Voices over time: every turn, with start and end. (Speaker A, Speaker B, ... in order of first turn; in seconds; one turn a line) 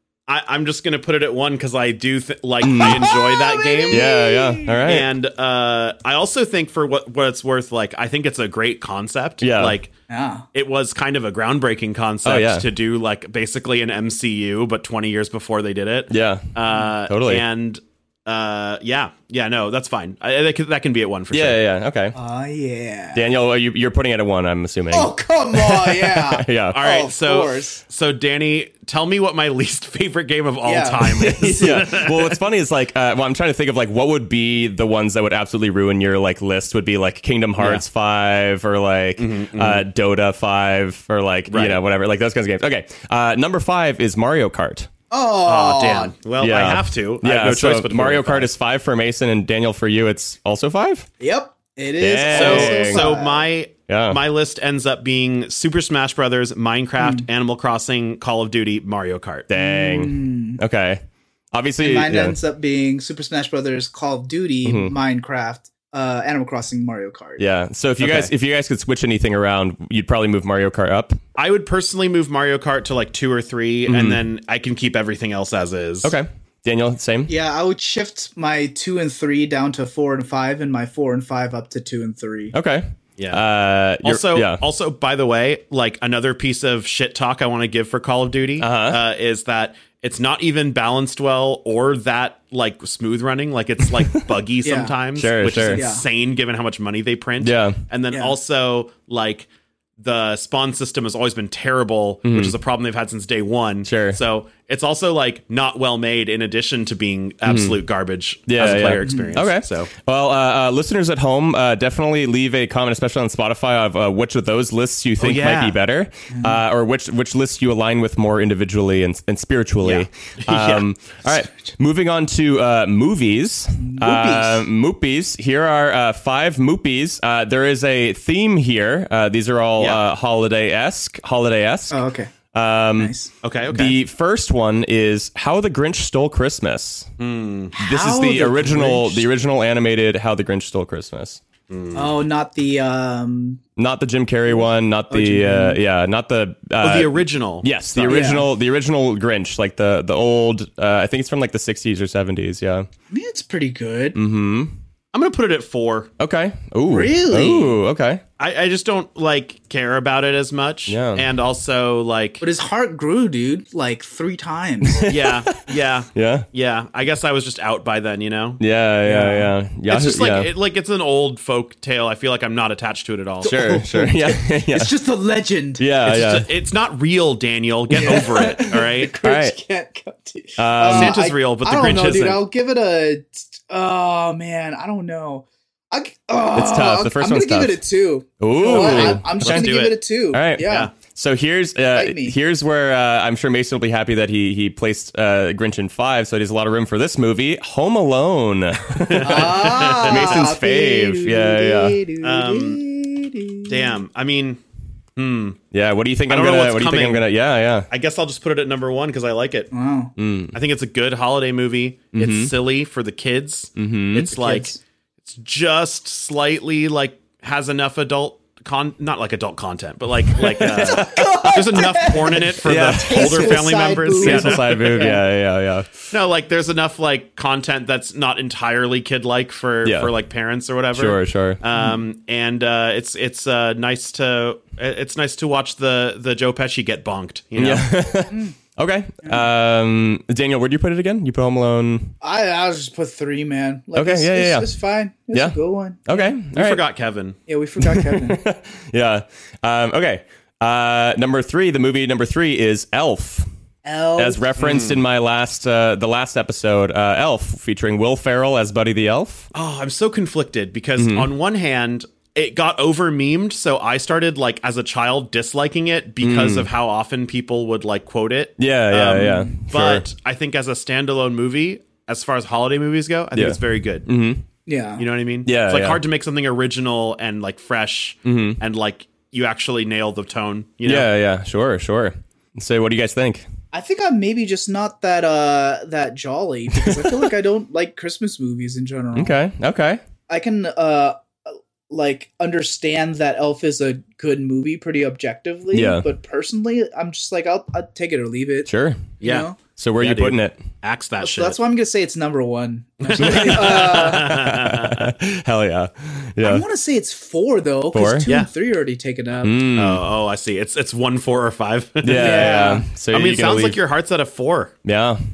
Speaker A: 0.3-4.1
Speaker B: 2.6-3.1
Speaker C: 2.8-4.9
Speaker B: 3.9-5.1
Speaker A: 4.8-9.9
Speaker B: 9.4-9.8
Speaker C: 10.1-10.5
Speaker A: 10.5-21.6
Speaker B: 12.2-12.7
Speaker B: 16.1-17.4
Speaker B: 21.3-22.2
Speaker C: 22.1-23.2
Speaker B: 23.1-26.8
Speaker C: 24.9-27.8
Speaker A: 26.7-32.4
Speaker C: 30.6-32.0
Speaker B: 31.1-44.9
Speaker A: 37.6-37.8
Speaker A: 39.2-39.9
Speaker A: 41.5-41.8
Speaker C: 45.1-46.1
Speaker A: 45.5-48.5
Speaker B: 46.4-51.1
Speaker C: 51.2-53.5
Speaker B: 52.0-53.1
Speaker A: 52.3-59.5
Speaker B: 53.9-54.2
Speaker C: 57.0-57.3
Speaker B: 59.5-62.4
Speaker C: 59.5-60.6
Speaker C: 61.8-67.5
Speaker B: 64.6-65.0
Speaker B: 67.4-71.2
Speaker A: 68.0-68.3
Speaker A: 71.4-76.1
Speaker B: 73.9-74.2
Speaker B: 76.0-77.3
Speaker C: 77.3-82.5
Speaker B: 82.5-84.6
Speaker A: 83.2-83.4
Speaker A: 84.0-99.5
Speaker B: 88.6-89.0
Speaker C: 94.6-95.0
Speaker B: 95.2-95.8
Speaker C: 95.7-96.0
Speaker B: 97.4-97.8
Speaker A: 100.0-109.9
Speaker B: 102.2-102.6
Speaker B: 103.8-104.2
Speaker B: 107.5-107.8
Speaker B: 108.5-132.0
Speaker C: 109.0-109.3
Speaker A: 115.2-115.8
Speaker C: 116.3-116.6
Speaker A: 119.8-120.9
Speaker C: 123.8-124.7
Speaker A: 129.8-130.1
Speaker C: 131.9-132.3
Speaker B: 132.5-133.1
Speaker C: 133.0-133.3
Speaker A: 133.4-134.0
Speaker B: 133.7-137.1
Speaker A: 137.2-137.7
Speaker C: 137.8-139.3
Speaker B: 137.8-141.4
Speaker A: 141.7-142.2
Speaker C: 141.9-143.6
Speaker B: 143.8-152.9
Speaker C: 144.5-145.8
Speaker A: 146.8-148.3
Speaker C: 148.1-148.5
Speaker C: 153.1-154.2
Speaker B: 154.2-154.8
Speaker A: 155.1-156.1
Speaker B: 156.2-158.2
Speaker C: 156.9-157.8
Speaker A: 158.4-162.4
Speaker B: 160.9-161.2
Speaker C: 162.4-165.1
Speaker B: 164.8-166.5
Speaker A: 165.1-168.6
Speaker B: 168.6-170.5
Speaker C: 169.1-169.5
Speaker A: 169.9-173.6
Speaker C: 173.4-175.8
Speaker B: 173.4-174.9
Speaker B: 175.8-176.5
Speaker A: 176.0-179.2
Speaker C: 177.9-190.9
Speaker B: 178.0-178.6
Speaker B: 179.2-179.6
Speaker B: 180.6-181.2
Speaker A: 180.8-182.4
Speaker B: 186.5-187.8
Speaker B: 188.4-189.8
Speaker A: 188.7-190.0
Speaker B: 190.3-202.0
Speaker A: 190.7-190.9
Speaker C: 191.9-192.4
Speaker A: 199.0-200.5
Speaker C: 199.2-204.0
Speaker A: 202.2-202.8
Speaker A: 203.7-204.6
Speaker A: 205.2-205.6
Speaker B: 205.7-207.9
Speaker A: 206.3-207.2
Speaker A: 207.9-209.7
Speaker C: 209.7-210.1
Speaker B: 210.2-210.6
Speaker A: 210.5-225.2
Speaker B: 212.2-212.5
Speaker B: 213.8-214.3
Speaker C: 214.3-214.8
Speaker B: 220.4-221.9
Speaker C: 220.8-225.2
Speaker B: 222.6-225.9
Speaker A: 226.1-237.9
Speaker B: 229.8-230.1
Speaker B: 230.9-231.6
Speaker B: 237.6-242.2
Speaker C: 238.3-238.6
Speaker C: 242.2-246.4
Speaker B: 243.9-244.7
Speaker B: 245.3-246.8
Speaker A: 246.5-247.4
Speaker C: 247.5-248.4
Speaker B: 247.8-253.5
Speaker C: 253.8-254.6
Speaker B: 254.2-259.5
Speaker A: 254.6-255.0
Speaker A: 259.5-274.1
Speaker B: 261.0-261.3
Speaker B: 266.2-266.7
Speaker B: 268.6-270.1
Speaker B: 273.3-274.4
Speaker C: 274.7-275.1
Speaker A: 275.0-281.1
Speaker B: 275.4-276.0
Speaker B: 278.2-278.6
Speaker B: 280.8-283.5
Speaker C: 283.7-289.4
Speaker B: 286.7-287.3
Speaker B: 289.1-290.0
Speaker C: 290.3-298.7
Speaker B: 295.7-296.1
Speaker B: 298.7-299.1
Speaker C: 299.2-299.6
Speaker A: 299.2-301.6
Speaker B: 299.8-300.6
Speaker C: 301.2-304.4
Speaker A: 303.0-305.1
Speaker B: 303.2-306.6
Speaker C: 306.4-309.6
Speaker B: 307.9-308.3
Speaker B: 309.4-310.1
Speaker A: 309.8-314.7
Speaker B: 312.0-313.8
Speaker C: 312.1-312.9
Speaker B: 314.9-315.2